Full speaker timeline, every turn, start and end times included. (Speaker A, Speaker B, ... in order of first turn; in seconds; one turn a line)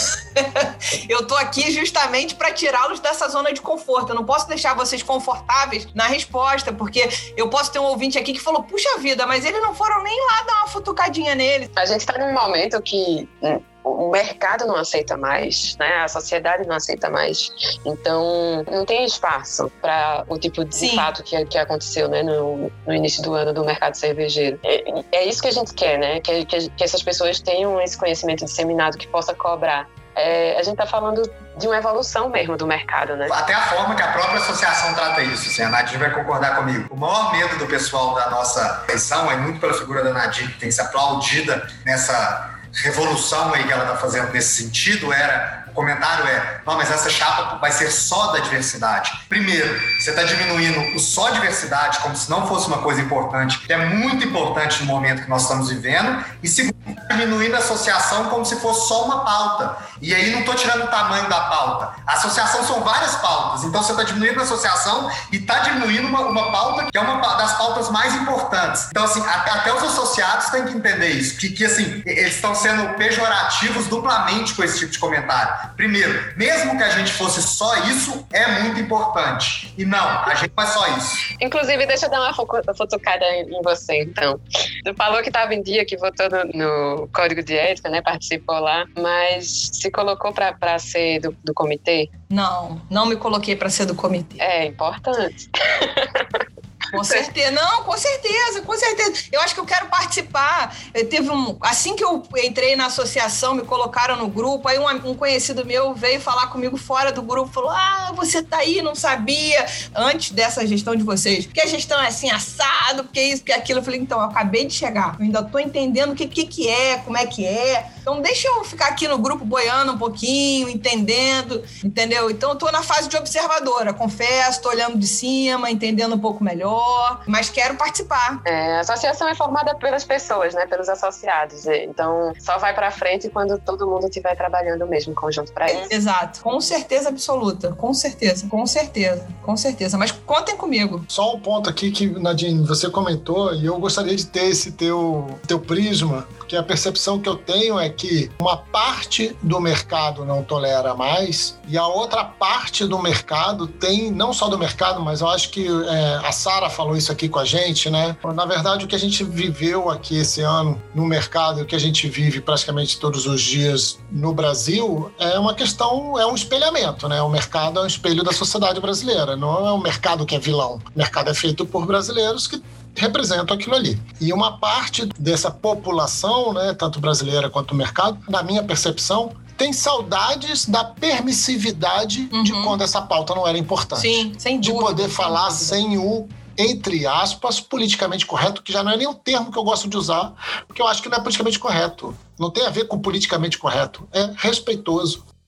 Speaker A: 0.3-11.7
Speaker B: 11.8-33.3
Speaker A: 20.8-21.1
Speaker C: 33.3-81.2
Speaker B: 81.4-92.1
Speaker A: 92.3-94.4
Speaker B: 94.4-96.4
Speaker A: 96.9-128.4
Speaker B: 128.4-135.9
Speaker A: 135.7-141.1
Speaker D: 141.1-195.2
Speaker A: 182.3-182.8
Speaker A: 183.9-185.8